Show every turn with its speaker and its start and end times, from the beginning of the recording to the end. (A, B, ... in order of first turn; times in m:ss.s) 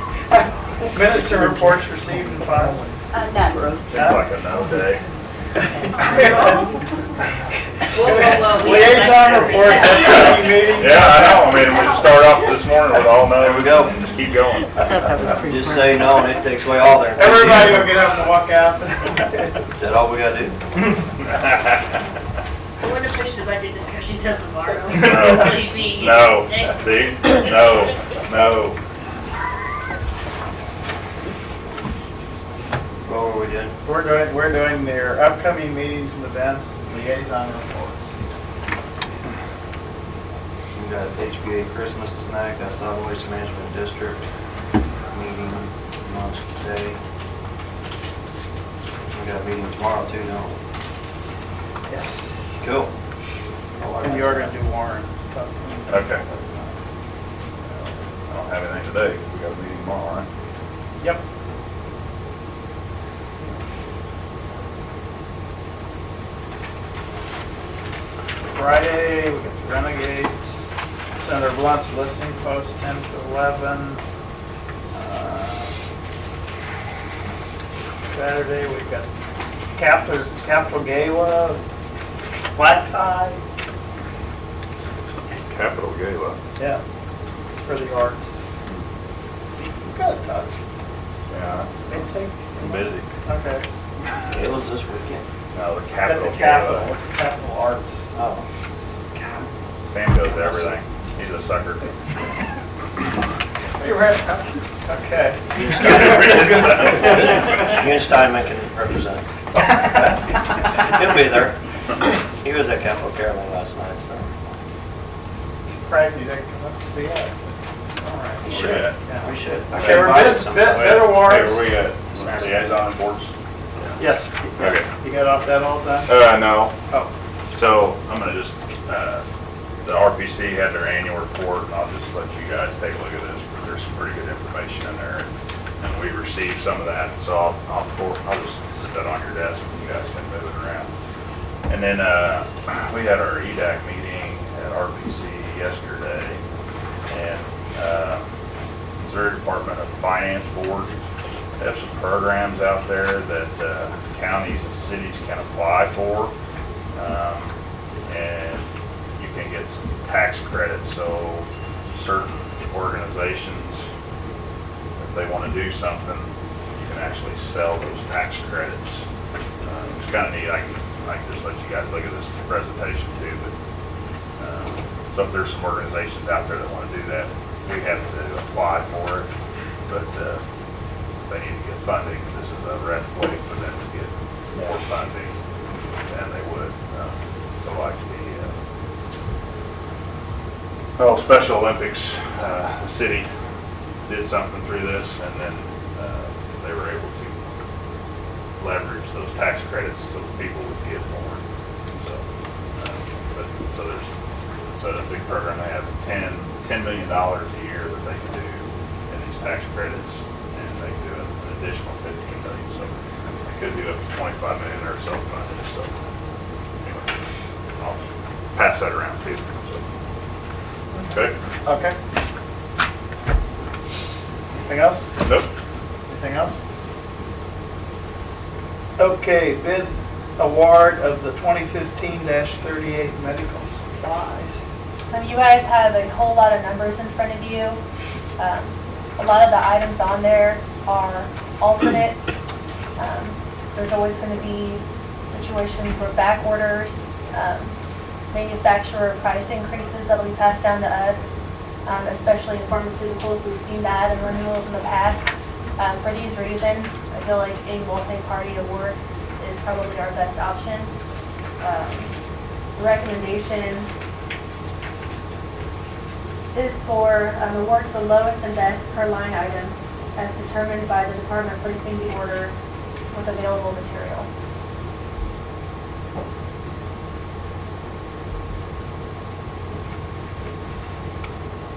0:00.9-0:02.9 A
0:03.9-0:05.0 B
0:03.9-0:04.2 A
0:06.0-0:06.7 A
0:07.9-0:10.8 C
0:08.0-0:11.6 A
0:10.7-0:15.1 B
0:13.4-0:14.0 D
0:15.4-0:18.0 D
0:17.2-0:19.5 A
0:19.7-0:20.6 D
0:21.2-0:21.8 B
0:22.8-0:28.1 C
0:25.0-0:28.8 B
0:33.0-0:33.8 D
0:33.8-0:38.2 A
0:40.7-0:44.2 D
0:45.1-0:47.0 D
0:49.1-0:50.6 D
0:51.9-0:52.3 A
0:52.6-0:52.9 D
0:53.8-0:54.6 D
0:54.0-0:56.7 A
0:55.9-0:56.2 B
0:58.3-1:00.3 B
1:08.5-1:10.6 A
1:11.2-1:14.0 A
1:14.9-1:15.7 A
1:18.1-1:19.1 A
1:19.8-1:21.6 A
1:22.6-1:23.4 A
1:25.3-1:26.4 B
1:27.6-1:28.3 A
1:29.6-1:30.6 A
1:31.3-1:31.9 B
1:31.9-1:32.7 A
1:32.6-1:33.1 B
1:33.3-1:33.6 A
1:34.3-1:35.3 D
1:35.5-1:36.9 B
1:36.0-1:38.1 A
1:38.1-1:38.4 D
1:39.1-1:39.5 A
1:39.9-1:41.9 B
1:40.2-1:40.8 D
1:43.8-1:47.0 A
1:45.5-1:49.2 D
1:45.6-1:47.2 B
1:50.0-1:51.6 D
1:52.4-1:54.3 D
1:55.8-2:01.6 A
1:58.4-2:01.0 D
1:58.5-1:59.0 B
1:59.8-2:04.0 B
2:02.1-2:02.5 D
2:04.0-2:06.1 A
2:04.6-2:04.9 B
2:06.1-2:06.7 B
2:07.5-2:09.2 B
2:09.8-2:20.9 B
2:21.7-2:26.4 B
2:27.1-2:28.3 B
2:29.0-2:31.0 B
2:31.6-2:36.3 B
2:36.9-2:37.5 B
2:38.1-2:43.8 B
2:45.0-2:49.1 B
2:49.6-2:53.5 B
2:54.4-2:59.3 B
2:59.9-3:00.4 B
3:01.3-3:05.4 B
3:06.1-3:08.6 B
3:11.0-3:13.3 B
3:14.1-3:17.4 B
3:18.6-3:22.2 B
3:22.8-3:24.1 B
3:24.8-3:32.9 B
3:33.4-3:35.9 B
3:36.8-3:37.1 B
3:37.8-3:38.0 B
3:38.6-3:39.8 B
3:41.0-3:41.4 B
3:41.6-3:42.0 A
3:44.7-3:45.1 A
3:45.2-3:45.5 B
3:46.1-3:46.6 A
3:49.0-3:54.6 A
3:55.1-3:57.8 E
3:58.4-4:02.2 E
4:03.0-4:07.8 E
4:08.3-4:11.3 E
4:11.8-4:20.9 E
4:21.6-4:22.1 E
4:22.8-4:23.9 E
4:26.5-4:32.5 E
4:33.1-4:34.3 E